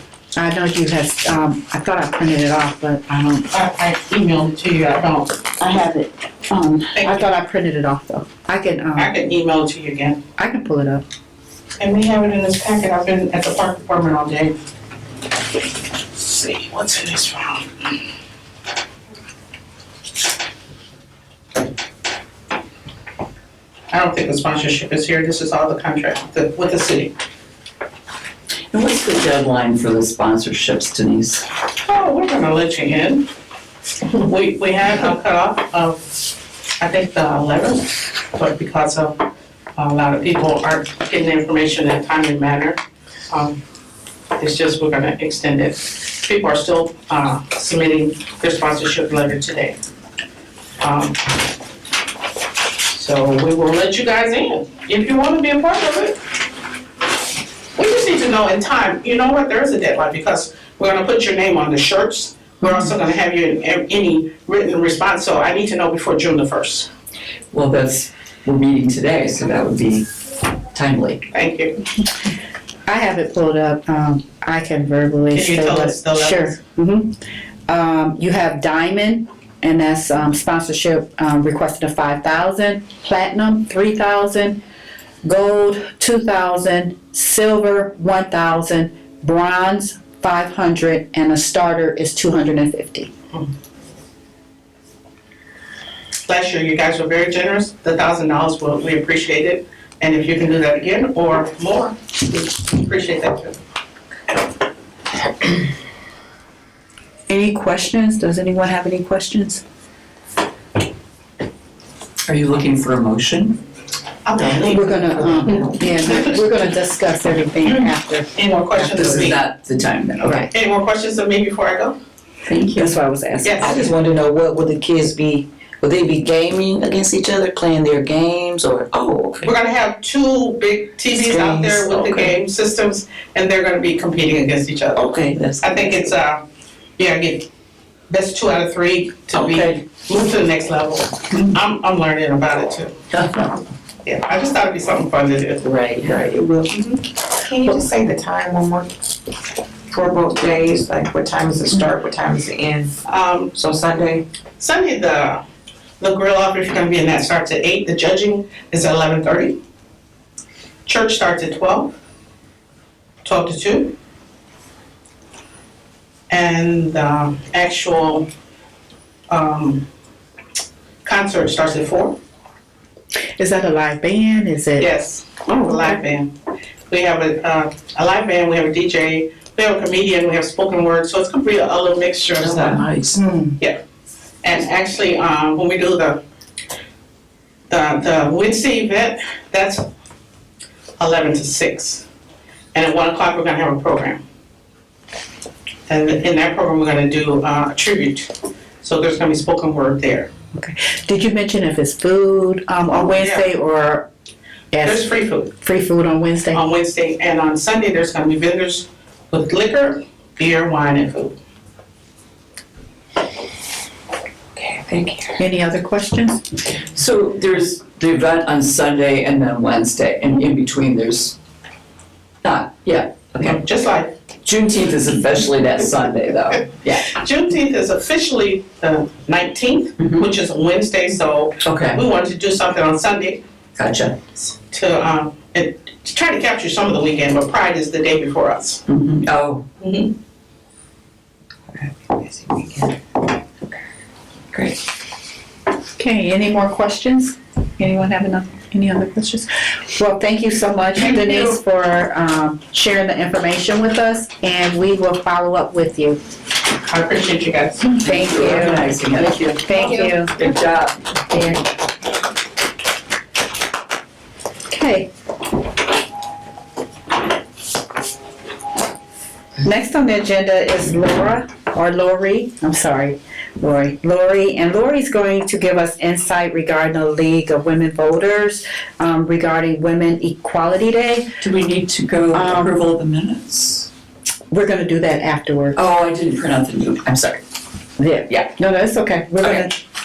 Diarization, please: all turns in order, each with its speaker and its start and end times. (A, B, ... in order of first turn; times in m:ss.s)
0:00.4-0:03.5 A
0:03.5-0:05.4 B
0:05.6-0:09.1 A
0:07.0-0:07.3 B
0:09.0-0:10.2 B
0:10.4-0:11.0 A
0:11.8-0:14.6 B
0:16.1-0:18.0 B
0:23.9-0:27.1 B
0:28.7-0:31.4 C
0:31.8-0:33.3 B
0:34.1-0:36.2 B
0:36.8-0:39.2 B
0:39.8-0:43.6 B
0:44.4-0:49.8 B
0:50.8-0:51.4 B
0:52.9-0:56.2 B
0:57.8-1:06.9 B
1:07.5-1:10.1 C
1:10.7-1:11.2 C
1:11.3-1:11.8 B
1:12.9-1:17.2 A
1:15.3-1:16.6 B
1:17.7-1:24.6 A
1:25.2-1:33.1 A
1:36.3-1:43.6 B
1:47.3-1:49.6 A
1:52.3-1:53.6 C
1:54.2-1:56.4 B
1:54.6-1:59.3 A
1:55.4-1:55.7 D
1:57.6-1:59.4 B
1:59.0-2:00.5 C
2:00.2-2:00.5 A
2:00.4-2:02.0 B
2:02.5-2:02.9 C
2:02.7-2:03.8 A
2:03.4-2:03.9 B
2:03.6-2:09.0 E
2:09.0-2:09.4 D
2:09.4-2:15.0 B
2:11.1-2:12.3 D
2:15.0-2:15.8 E
2:15.6-2:16.4 B
2:17.0-2:17.5 B
2:18.1-2:23.0 B
2:19.4-2:19.8 C
2:23.2-2:23.6 C
2:24.1-2:25.6 B
2:25.8-2:26.4 C
2:26.0-2:28.9 D
2:29.9-2:32.9 D
2:33.1-2:33.5 B
2:33.5-2:34.2 D
2:34.6-2:35.4 B
2:36.0-2:39.6 B
2:40.9-2:41.9 B
2:43.2-2:43.9 B
2:46.3-2:48.3 B
2:49.3-2:49.9 B
2:51.0-2:52.2 B
2:53.4-2:54.9 A
2:54.8-2:56.3 B
2:55.6-2:55.9 A
2:56.9-3:02.8 B
3:02.4-3:03.2 E
3:03.2-3:03.5 A
3:04.4-3:06.2 B
3:07.7-3:09.8 B
3:11.0-3:12.0 B
3:12.7-3:14.2 B
3:15.9-3:18.3 B
3:18.8-3:20.3 B
3:20.6-3:24.1 A
3:22.9-3:23.5 B
3:24.7-3:26.6 A
3:24.8-3:25.5 B
3:26.5-3:31.4 B
3:34.6-3:35.4 D
3:35.4-3:36.4 A
3:36.9-3:41.4 C
3:42.4-3:43.6 C
3:43.4-3:44.1 B
3:44.4-3:47.2 C
3:47.1-3:53.4 B
3:51.6-3:52.0 C
3:53.8-3:54.2 C
3:54.4-3:58.8 B
3:58.9-3:59.6 C
3:59.8-4:00.1 B
4:06.0-4:16.2 A
4:16.8-4:18.0 B
4:17.8-4:18.9 A
4:18.0-4:21.0 C
4:19.6-4:20.4 A
4:19.7-4:20.1 B
4:21.3-4:21.6 A
4:24.7-4:25.1 A
4:29.6-4:41.3 A
4:41.4-4:43.9 C
4:42.3-4:42.8 A
4:44.5-4:45.8 A
4:45.8-4:47.4 C
4:48.0-4:48.5 C
4:48.0-4:49.8 A